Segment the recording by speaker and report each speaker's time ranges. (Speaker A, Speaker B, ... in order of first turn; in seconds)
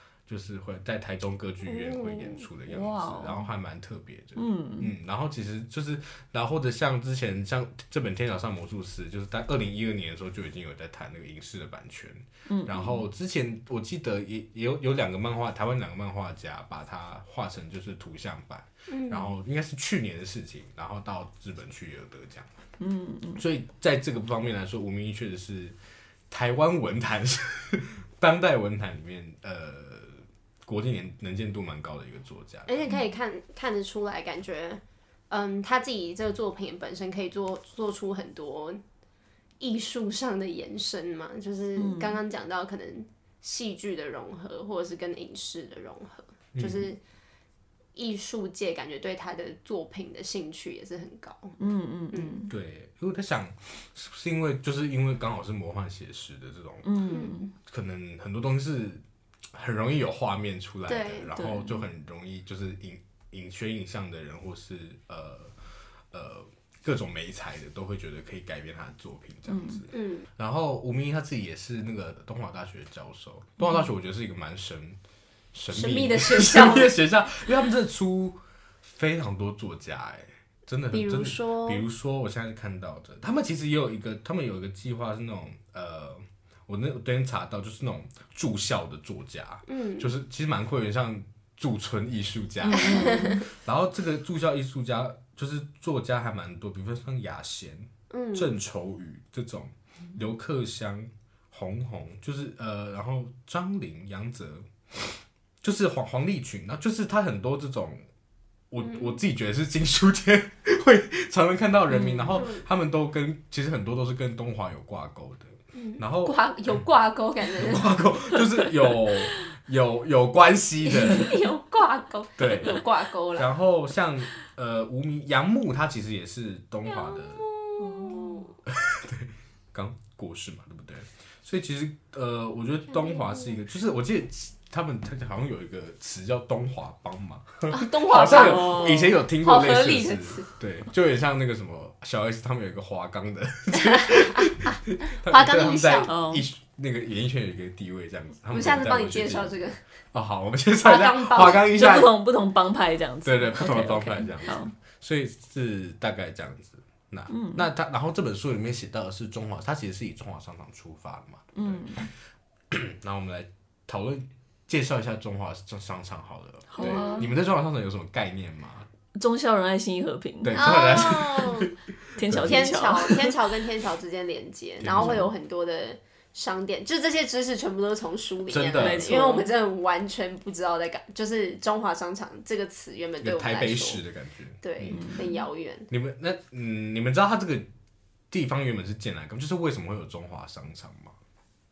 Speaker A: 0.3-22.5, 23.4-25.8, 26.3-32.8, 46.5-46.9, 52.5-56.9, 57.6-59.0, 59.5-65.5, 66.1-75.0, 75.5-108.0, 108.7-116.8, 117.5-121.3, 122.4-122.8, 123.3-127.4, 128.7-149.6, 150.1-152.1, 153.2-162.1, 162.7-168.9, 170.4-172.8, 174.8-175.3, 178.5-179.1, 183.2-185.2, 185.9-187.7, 188.3-191.1
Speaker B: 1.6-2.4, 18.9-19.3, 32.7-38.8, 39.6-47.0, 47.9-51.5, 52.1-52.5, 57.1-57.5, 60.9-61.3, 69.9-70.3, 75.7-76.9, 80.9-81.8, 89.7-90.1, 92.8-93.4, 98.1-98.5, 108.8-109.2, 112.3-112.6, 115.7-118.0, 120.8-123.5, 126.9-128.5, 132.9-133.6, 137.7-140.5, 143.8-146.1, 148.5-149.8, 150.8-151.7, 166.8-167.3, 170.5-171.7, 172.4-184.0, 184.6-185.9
Speaker C: 2.7-3.5, 4.3-4.9, 12.5-13.0, 22.8-23.4, 41.8-42.2, 51.6-52.5, 56.8-57.5, 61.3-61.8, 69.5-69.8, 73.6-73.9, 92.6-93.4, 111.9-112.4, 127.8-128.4, 138.2-139.2, 146.1-146.4, 151.7-154.7, 157.3-157.7, 161.5-162.1, 166.7-167.3, 169.1-170.8, 172.2-173.3, 174.9-175.3, 178.8-179.5, 184.9-185.4